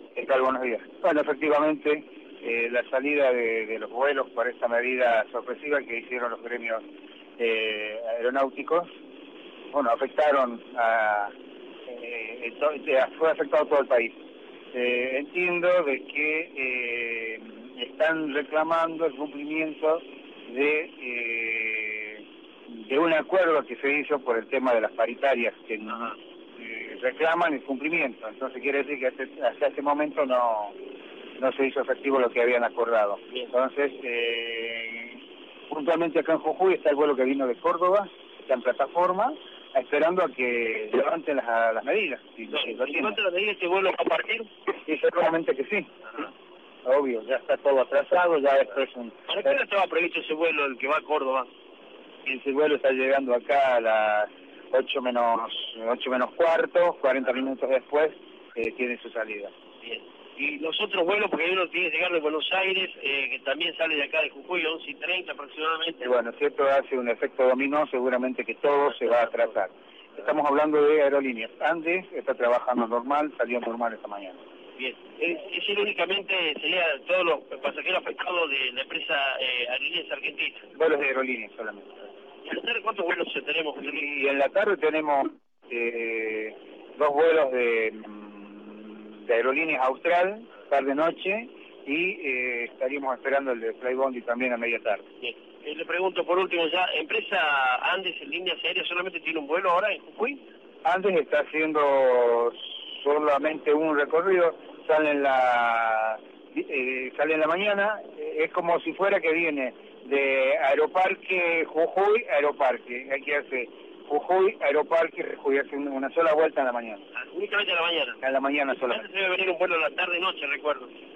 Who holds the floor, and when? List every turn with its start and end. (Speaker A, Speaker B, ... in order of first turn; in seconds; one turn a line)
Speaker A: 0.1-6.8
Speaker A: 7.4-8.9
Speaker A: 9.7-11.3
Speaker A: 11.9-14.1
Speaker A: 14.7-30.7
Speaker A: 31.4-43.2
Speaker B: 42.5-44.5
Speaker A: 44.8-46.3
Speaker A: 46.8-49.3
Speaker B: 49.3-51.5
Speaker A: 52.2-59.5
Speaker B: 59.8-66.1
Speaker A: 66.0-74.4
Speaker B: 74.8-80.6
Speaker A: 80.7-81.9
Speaker B: 82.4-84.0
Speaker A: 83.8-95.0
Speaker B: 95.2-100.4
Speaker A: 100.8-117.0
Speaker B: 117.2-118.2
Speaker A: 118.2-119.0
Speaker B: 118.8-120.9